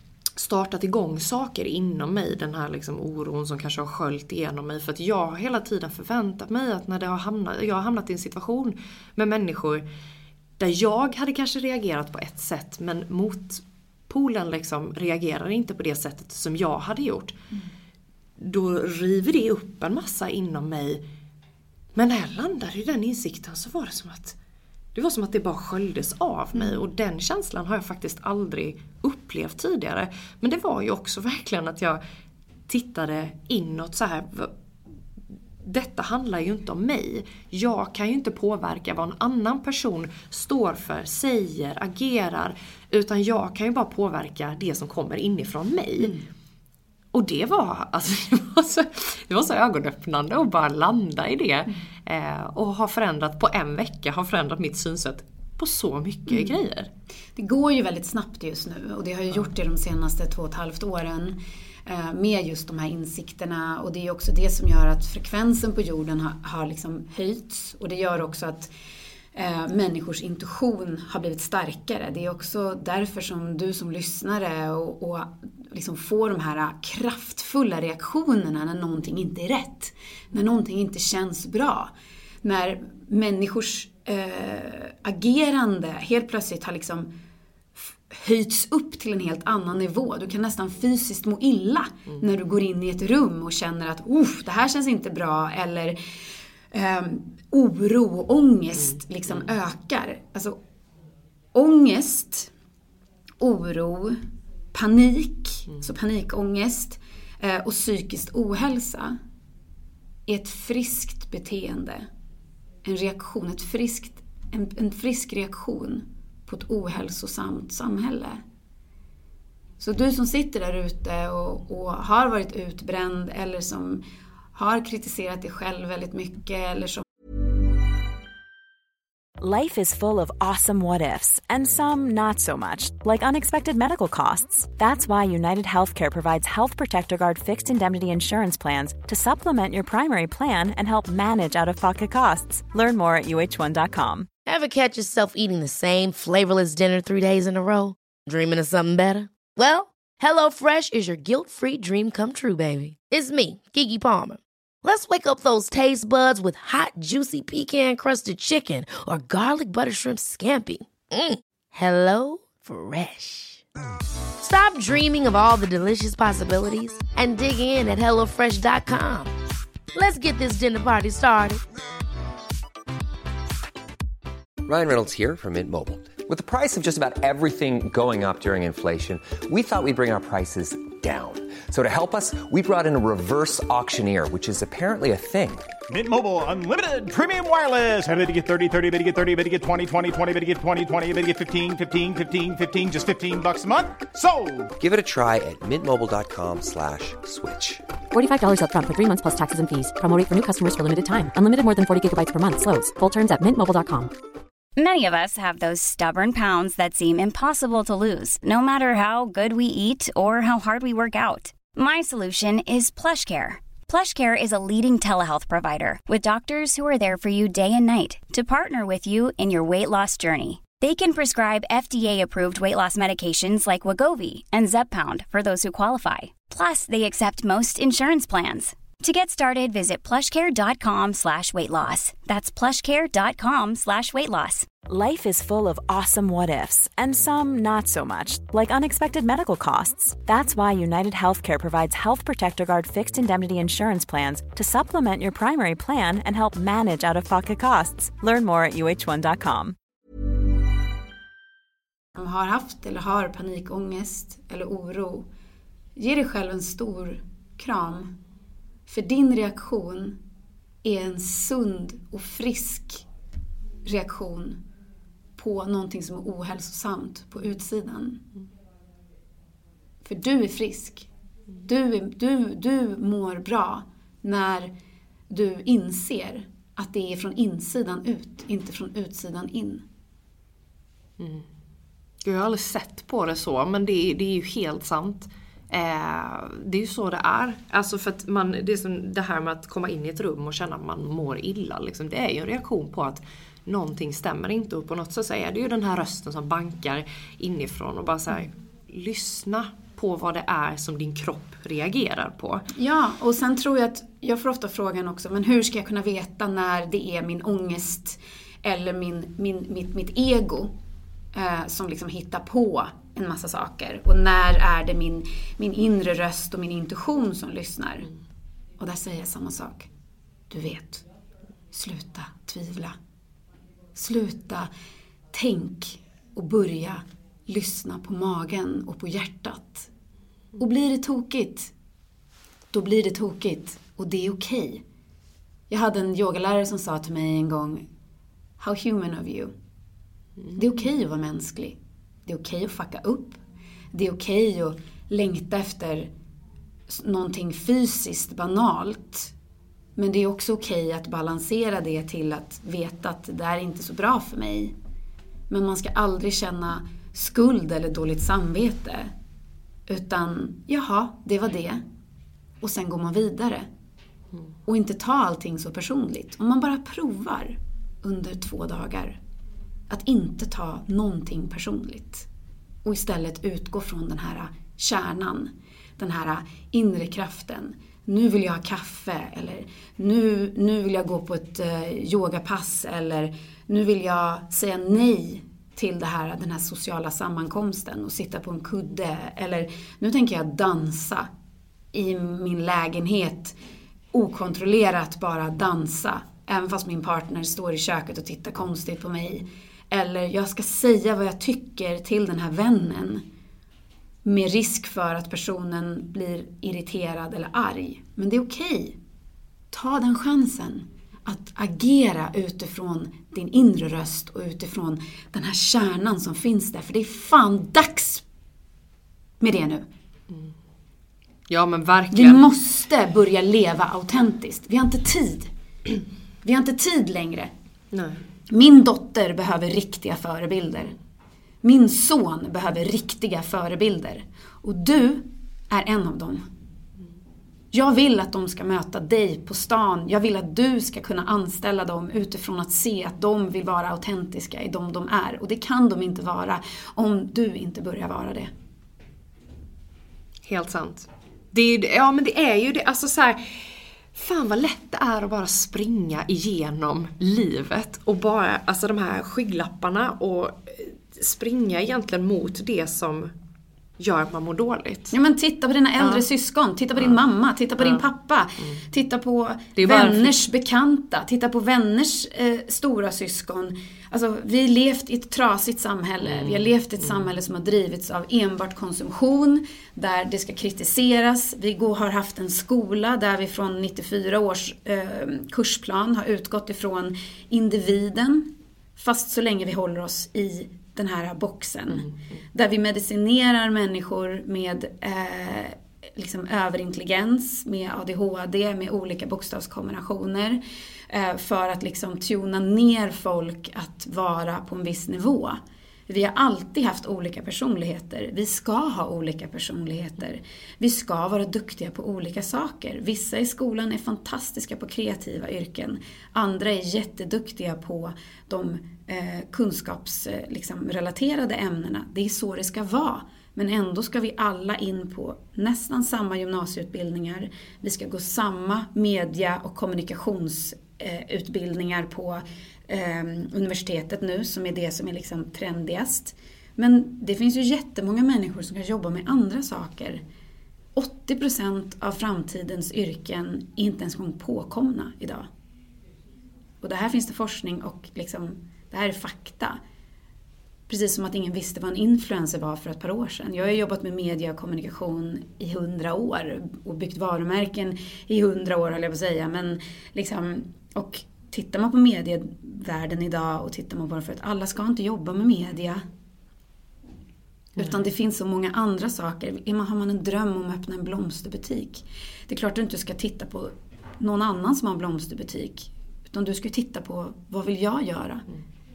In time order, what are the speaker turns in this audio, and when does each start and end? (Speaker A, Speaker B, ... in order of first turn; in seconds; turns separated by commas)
Speaker A: 0.4-9.8, Speaker A: 10.6-17.4, Speaker A: 18.4-21.0, Speaker A: 21.9-24.4, Speaker A: 24.9-32.0, Speaker B: 26.5-26.8, Speaker A: 32.7-34.5, Speaker A: 35.6-46.1, Speaker A: 47.1-56.9, Speaker B: 56.3-56.5, Speaker B: 57.4-68.7, Speaker B: 69.3-81.9, Speaker B: 82.4-87.1, Speaker B: 87.8-96.0, Speaker B: 96.7-100.6, Speaker B: 101.5-102.5, Speaker B: 103.4-104.2, Speaker B: 104.7-109.2, Speaker B: 110.2-112.1, Speaker B: 112.8-118.4, Speaker B: 119.8-124.0, Speaker B: 124.5-127.0, Speaker C: 129.4-144.3, Speaker D: 144.4-163.6, Speaker D: 164.4-169.3, Speaker D: 169.9-171.6, Speaker E: 174.7-185.7, Speaker F: 185.9-194.7, Speaker E: 194.8-197.8, Speaker G: 198.1-204.1, Speaker H: 204.8-234.7, Speaker C: 234.8-249.8, Speaker B: 252.1-255.2, Speaker B: 255.9-258.1, Speaker B: 258.9-260.2, Speaker B: 260.8-263.0, Speaker B: 263.8-264.6, Speaker B: 265.4-268.2, Speaker B: 270.0-271.1, Speaker B: 271.6-274.7, Speaker B: 275.3-279.8, Speaker A: 281.2-281.4, Speaker A: 282.2-302.7, Speaker B: 302.8-310.7, Speaker B: 311.3-318.1, Speaker B: 318.8-319.9, Speaker B: 320.5-321.0, Speaker B: 321.7-323.0, Speaker B: 323.9-324.7, Speaker B: 325.3-329.9, Speaker B: 330.6-331.7, Speaker B: 332.7-334.8, Speaker B: 335.7-337.9, Speaker B: 338.6-339.5, Speaker B: 340.5-343.4, Speaker B: 343.9-346.1, Speaker B: 346.9-349.3, Speaker B: 349.9-354.7, Speaker B: 355.5-359.1, Speaker B: 359.9-361.8, Speaker B: 362.6-363.7, Speaker B: 364.6-369.2, Speaker B: 369.9-372.3, Speaker B: 372.8-391.3, Speaker B: 391.9-393.5, Speaker B: 394.1-403.2, Speaker B: 404.2-408.9, Speaker B: 409.7-418.2, Speaker B: 419.4-419.9, Speaker A: 421.5-422.5, Speaker B: 422.1-425.5, Speaker B: 426.4-427.5, Speaker A: 427.9-428.2, Speaker B: 428.5-430.9, Speaker B: 431.6-436.4, Speaker B: 437.7-448.5, Speaker A: 450.4-463.3, Speaker A: 464.0-465.1, Speaker B: 465.1-540.2, Speaker A: 466.0-466.3, Speaker A: 467.8-468.1, Speaker A: 469.8-470.4, Speaker A: 476.2-477.3, Speaker B: 541.0-545.5, Speaker B: 546.8-549.8, Speaker B: 550.9-566.0, Speaker B: 567.8-578.5